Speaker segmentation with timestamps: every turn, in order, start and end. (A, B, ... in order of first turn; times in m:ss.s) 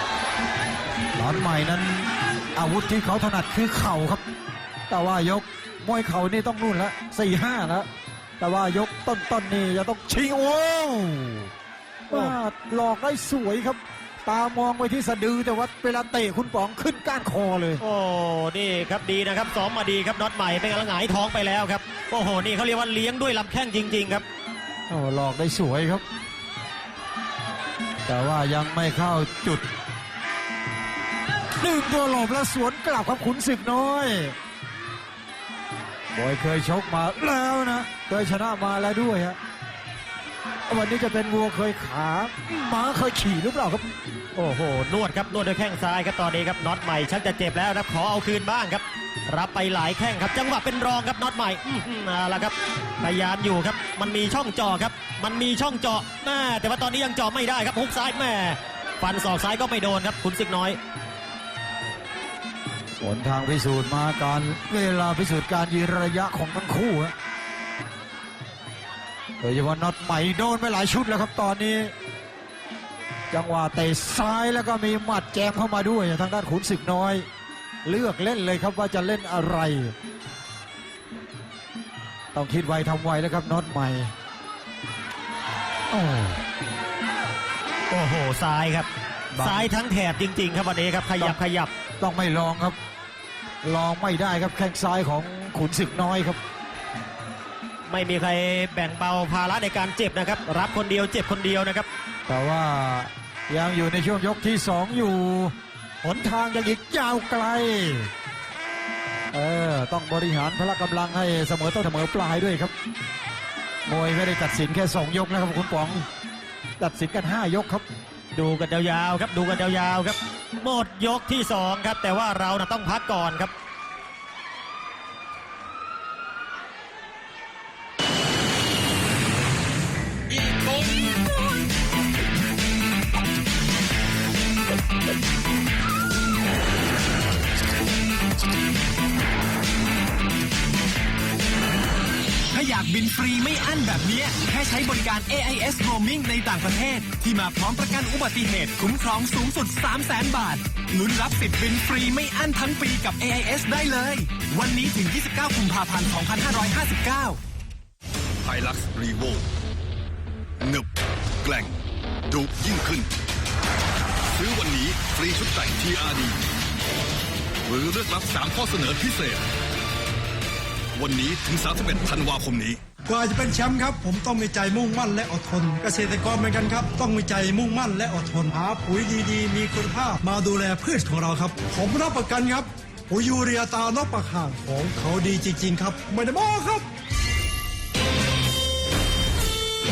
0:01.1-0:04.2 A
0:04.9-0:11.5 A
0:12.1-0:17.8 A
0:17.8-0:24.2 B
0:24.9-0:26.0 A
0:28.1-0:29.7 A
0:31.6-0:34.4 A
0:36.1-0:39.4 A
0:40.7-0:43.9 A
0:44.4-1:00.8 B
1:03.0-1:07.1 A
1:09.4-1:11.9 A
1:13.3-1:17.3 A
1:17.8-1:20.0 A
1:22.3-1:24.1 A
1:25.9-1:26.4 A
1:27.9-1:31.7 B
1:29.3-1:29.7 A
1:32.0-1:32.8 A
1:33.6-1:36.4 A
1:37.9-1:41.9 B
1:42.3-1:48.1 A
1:49.3-1:52.7 A
1:53.9-1:56.1 A
1:56.8-1:57.8 A
1:58.3-2:03.5 B
2:22.5-2:37.4 C
2:38.4-2:39.4 D
2:40.6-2:40.9 D
2:41.4-2:43.1 D
2:44.3-2:46.4 D
2:47.7-2:49.4 D
2:51.0-2:52.8 D
2:53.1-3:06.9 E